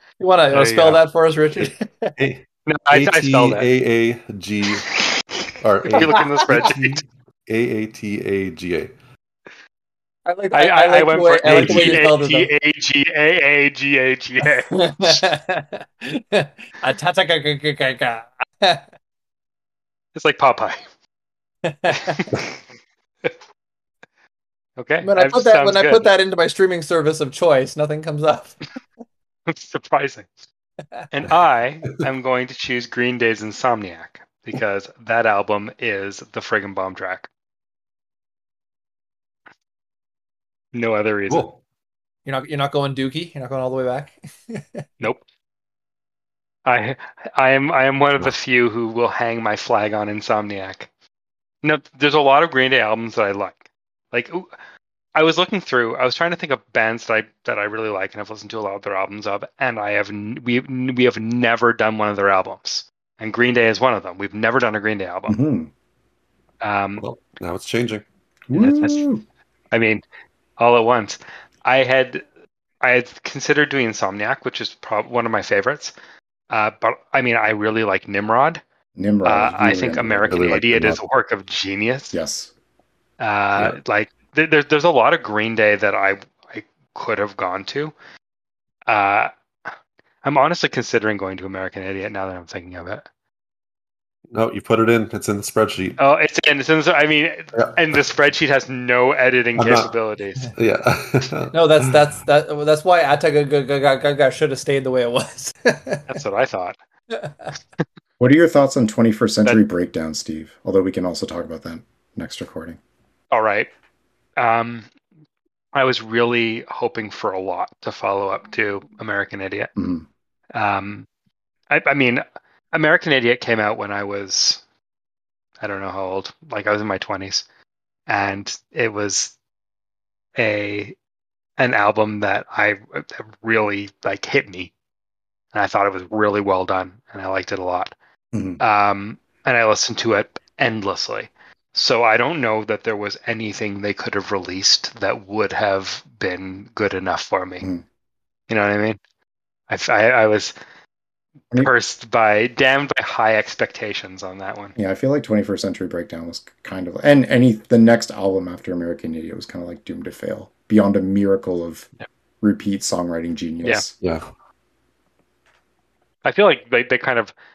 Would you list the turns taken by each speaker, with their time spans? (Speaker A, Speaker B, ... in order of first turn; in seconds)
Speaker A: 0.2-2.2, 6.1-6.4, 10.2-12.5, 14.4-18.9, 21.6-22.3, 25.0-28.6, 42.2-44.9, 101.5-106.2, 107.1-107.5
Speaker B: 0.5-1.0, 2.7-3.6, 5.8-6.9, 10.5-15.2, 20.1-20.9, 22.0-22.6, 24.8-26.1, 29.5-30.3, 31.1-37.3, 40.7-41.5, 46.6-50.9, 51.6-53.6, 54.1-54.5, 55.1-65.4, 66.6-67.0, 68.5-69.0, 69.7-70.0, 70.6-72.2, 72.8-75.9, 76.5-78.6, 79.2-82.1, 83.2-87.9, 88.9-89.3, 90.2-93.1, 96.0-100.5, 106.1-106.8, 113.3-113.7, 114.4-114.9, 115.7-119.7, 120.5-121.1, 121.7-124.6, 125.6-127.4, 128.1-129.3, 130.3-130.9, 131.6-134.7, 135.5-137.9, 138.6-147.7, 148.5-149.0, 149.7-150.5, 151.5-154.7, 166.2-167.3
Speaker C: 1.6-4.9, 5.6-8.9, 11.4-12.0, 41.3-41.6, 67.0-68.0, 80.3-80.9, 94.3-96.0, 99.6-99.9, 100.5-101.9, 164.0-164.2
Speaker D: 65.3-65.7, 68.5-69.2, 79.0-81.0, 82.1-82.5, 108.2-112.8, 119.8-120.1, 138.3-138.6, 154.8-161.9, 162.4-163.9